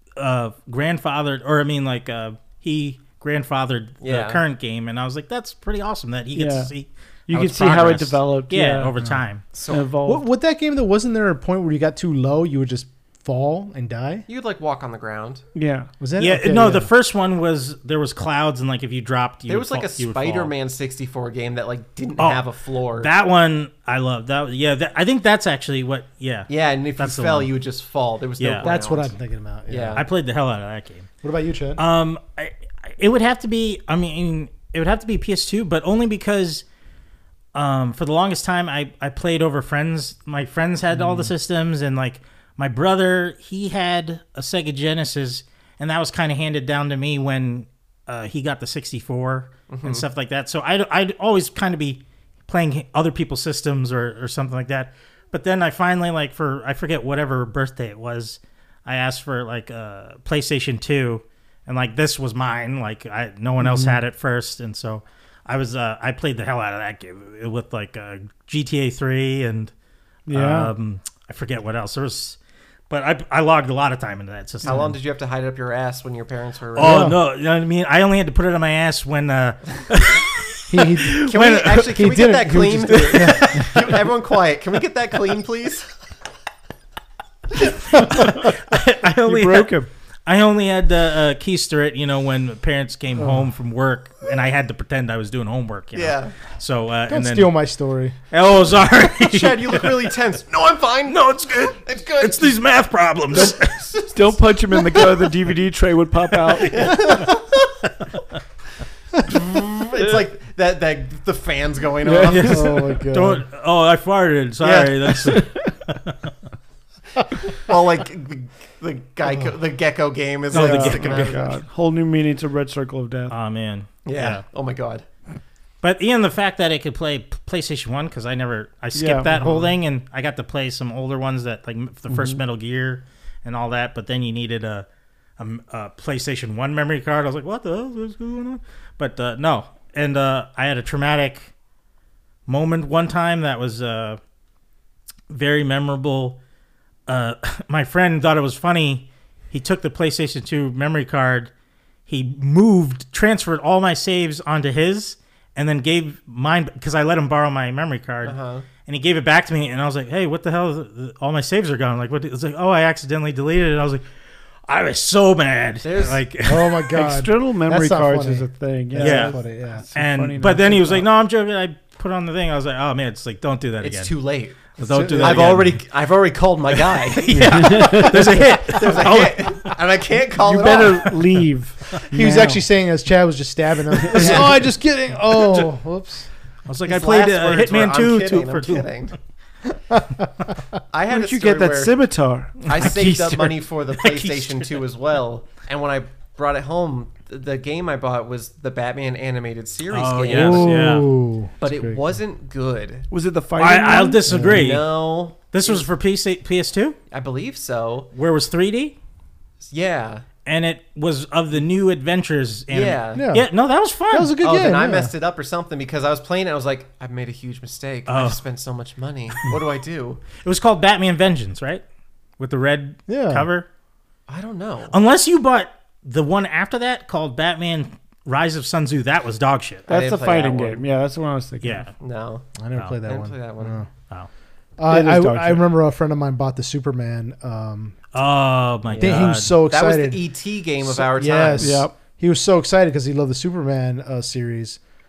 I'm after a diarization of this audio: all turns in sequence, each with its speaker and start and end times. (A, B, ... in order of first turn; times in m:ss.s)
0:00.2-0:09.4 A
0:04.0-0:04.4 B
0:06.3-0:06.7 C
0:07.3-0:08.9 C
0:09.5-0:09.9 B
0:09.7-0:10.2 C
0:10.0-0:14.3 D
0:14.3-0:15.4 B
0:15.6-0:15.9 C
0:16.0-0:16.9 D
0:16.2-0:20.5 A
0:19.5-0:23.1 B
0:22.2-0:22.4 A
0:23.0-0:27.5 A
0:26.5-0:29.1 B
0:28.4-0:28.7 A
0:28.6-0:30.0 D
0:29.7-0:30.0 B
0:30.0-0:31.1 A
0:31.2-0:31.8 D
0:31.8-0:36.6 A
0:37.5-1:09.7 A
0:41.0-0:41.3 D
0:49.7-0:50.1 B
1:03.6-1:04.0 C
1:10.3-1:10.7 C
1:10.3-1:12.4 A
1:12.9-1:14.9 A
1:14.6-1:17.1 B
1:16.8-1:22.0 A
1:16.8-1:17.2 D
1:20.7-1:23.7 D
1:21.2-1:25.9 B
1:23.1-1:23.7 A
1:27.9-1:37.5 A
1:29.2-1:29.9 C
1:33.2-1:33.4 D
1:36.0-1:36.3 B
1:37.1-1:38.2 D
1:38.3-1:40.1 A
1:39.2-1:42.6 B
1:41.1-1:43.9 A
1:43.3-1:45.0 B
1:44.1-1:47.0 C
1:46.5-1:47.3 A
1:46.6-1:47.4 B
1:49.2-1:52.7 B
1:52.0-1:52.8 C
1:52.3-1:56.3 A
1:52.5-1:53.4 D
1:54.6-1:55.4 B
1:55.2-1:55.5 C
1:57.5-2:01.6 B
2:00.5-2:01.4 A
2:00.5-2:03.4 C
2:03.3-2:04.4 A
2:04.0-2:05.1 B
2:05.8-2:14.9 A
2:08.9-2:09.5 C
2:12.1-2:12.4 C
2:15.4-2:21.5 A
2:22.5-2:24.2 A
2:25.3-2:26.4 A
2:27.1-2:31.5 A
2:32.1-2:44.0 A
2:38.2-2:38.7 B
2:44.7-2:46.9 A
2:45.8-2:46.2 B
2:46.4-2:49.8 D
2:46.9-2:51.1 C
2:49.0-2:49.4 A
2:49.9-2:54.2 A
2:53.8-3:01.2 B
2:54.8-2:55.8 A
2:54.8-2:55.6 D
2:56.8-2:59.7 A
2:57.3-2:58.4 C
2:57.9-2:58.4 D
3:00.4-3:02.6 C
3:02.1-3:06.3 D
3:04.0-3:04.4 C
3:04.1-3:04.6 B
3:06.7-3:09.0 A
3:06.8-3:09.2 B
3:09.9-3:10.3 D
3:10.9-3:12.0 B
3:11.1-3:13.7 C
3:12.6-3:20.9 B
3:14.0-3:14.7 A
3:19.9-3:21.1 A
3:20.3-3:22.0 D
3:21.6-3:23.1 B
3:23.1-3:24.4 C
3:23.6-3:27.0 A
3:24.3-3:24.8 D
3:24.5-3:25.9 B
3:27.1-3:28.1 B
3:28.1-3:29.0 A
3:29.7-3:30.3 B
3:30.4-3:34.4 A
3:32.7-3:33.2 B
3:33.1-3:33.5 D
3:34.1-3:35.1 D
3:34.4-3:40.2 B
3:38.1-3:38.4 A
3:40.4-3:41.8 A
3:42.4-3:43.7 A
3:43.1-3:43.5 D
3:44.3-3:45.0 B
3:44.9-3:49.9 A
3:49.9-3:50.8 B
3:49.9-3:51.9 C
3:51.6-3:51.9 A
3:52.0-3:52.5 B
3:52.6-3:53.9 D
3:53.0-3:53.8 B
3:54.8-3:58.0 D
3:54.9-3:55.7 C
3:58.1-3:59.6 A
3:58.9-4:01.8 B
3:59.0-4:00.2 D
4:00.8-4:04.8 D
4:01.6-4:01.9 C